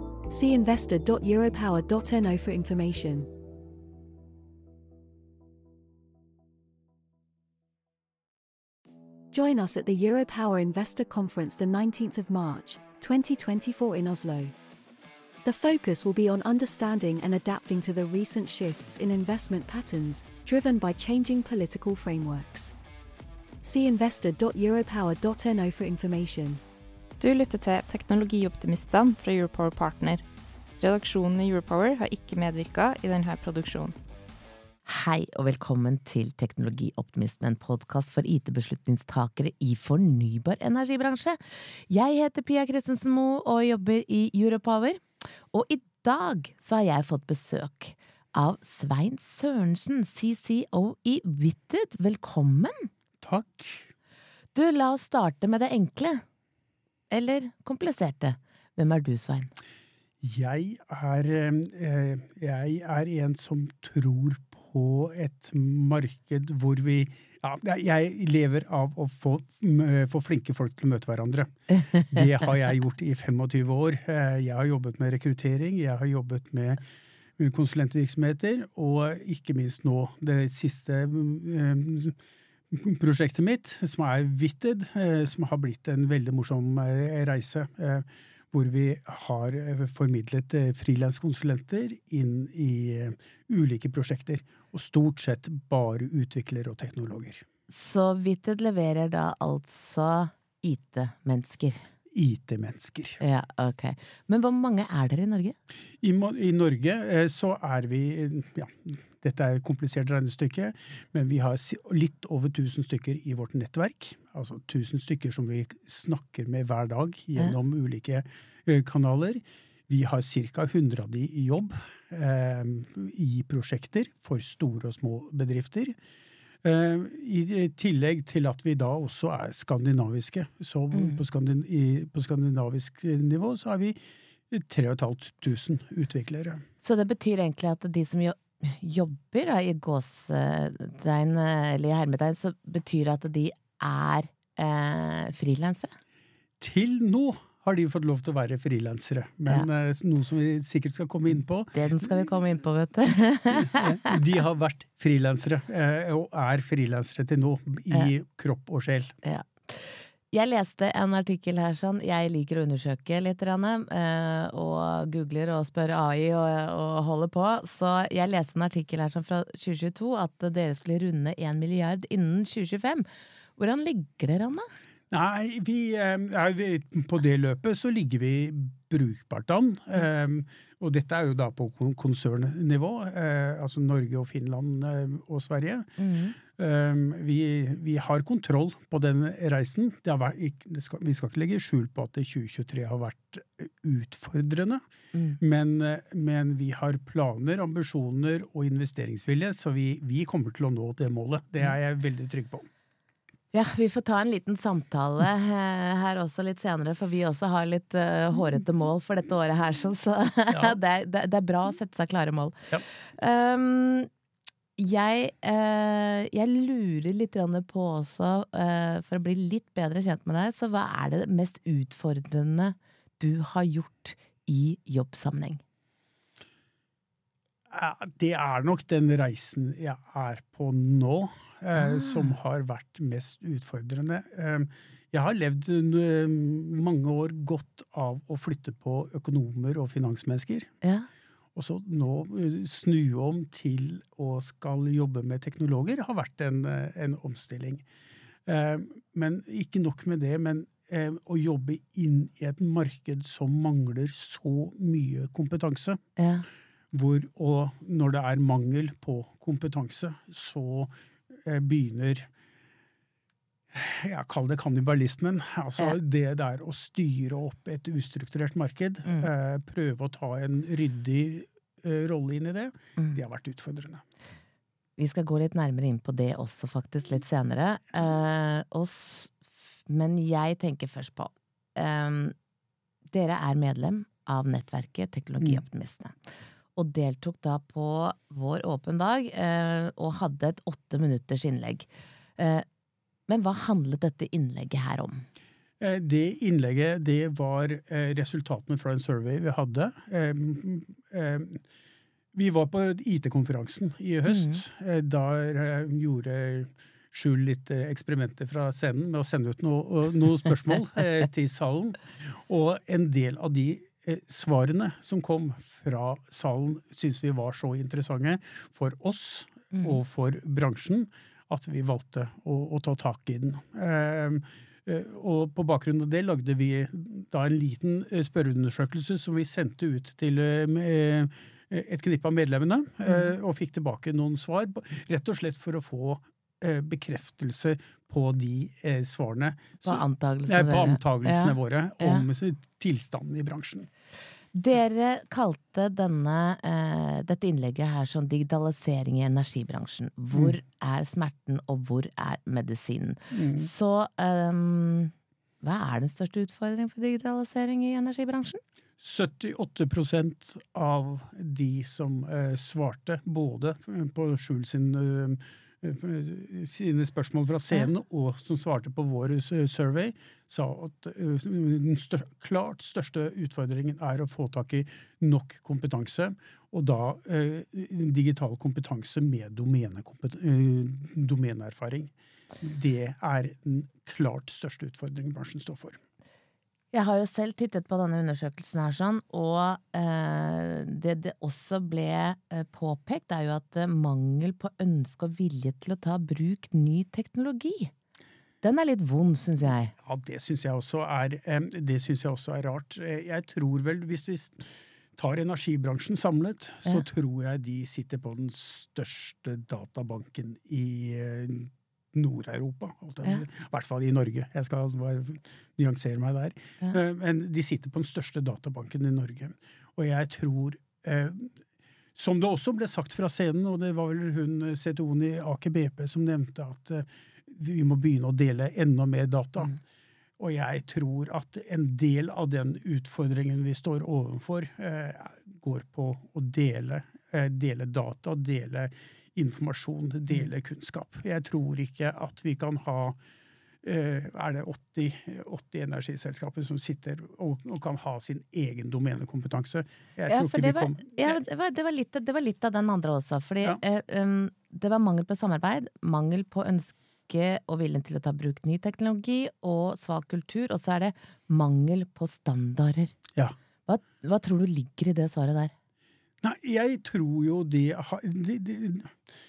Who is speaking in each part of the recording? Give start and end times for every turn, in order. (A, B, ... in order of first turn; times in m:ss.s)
0:00.3-0:03.3 A
0:09.3-0:14.5 A
0:15.4-0:22.7 A
0:23.6-0:26.6 A
0:27.2-0:30.2 B
0:30.8-0:33.9 B
0:34.8-0:52.9 C
0:53.2-0:53.9 D
0:54.5-0:56.2 C
0:57.1-0:59.5 C
1:00.2-1:16.8 D
1:17.4-1:22.2 D
1:22.7-1:37.4 D
1:37.7-1:41.8 C
1:42.1-1:43.2 D
1:43.2-1:45.6 C
1:46.0-2:06.0 D
2:06.6-2:16.6 D
2:10.9-2:11.2 C
2:16.8-2:25.9 C
2:26.6-2:32.3 D
2:31.7-2:34.2 C
2:33.5-2:39.1 D
2:39.2-2:54.6 C
2:55.1-3:14.8 D
3:06.0-3:06.4 C
3:15.1-3:15.4 C
3:15.4-3:22.6 D
3:23.5-3:34.1 C
3:30.5-3:30.8 D
3:34.8-3:45.6 C
3:47.7-4:00.7 D
3:51.8-3:52.3 C
4:00.8-4:01.1 C
4:01.5-4:07.8 D
4:08.4-4:16.0 D
4:16.2-4:16.5 C
4:16.9-4:22.3 D
4:23.7-4:34.0 D
4:35.0-4:42.3 C
4:43.1-4:46.2 C
4:46.8-4:52.6 C
4:53.3-4:55.2 C
4:55.8-5:01.6 D
5:02.3-5:43.9 D
5:04.3-5:04.6 C
5:33.0-5:33.3 C
5:39.8-5:42.2 C
5:44.5-5:58.6 C
5:53.3-5:53.7 D
5:59.0-6:22.1 D
6:22.6-6:26.0 D
6:26.9-6:37.9 C
6:38.6-6:39.9 C
6:40.0-7:01.5 D
7:02.1-7:09.8 D
7:10.4-7:23.2 D
7:23.8-7:31.4 D
7:30.3-7:43.1 C
7:43.8-7:45.7 C
7:46.4-7:49.3 D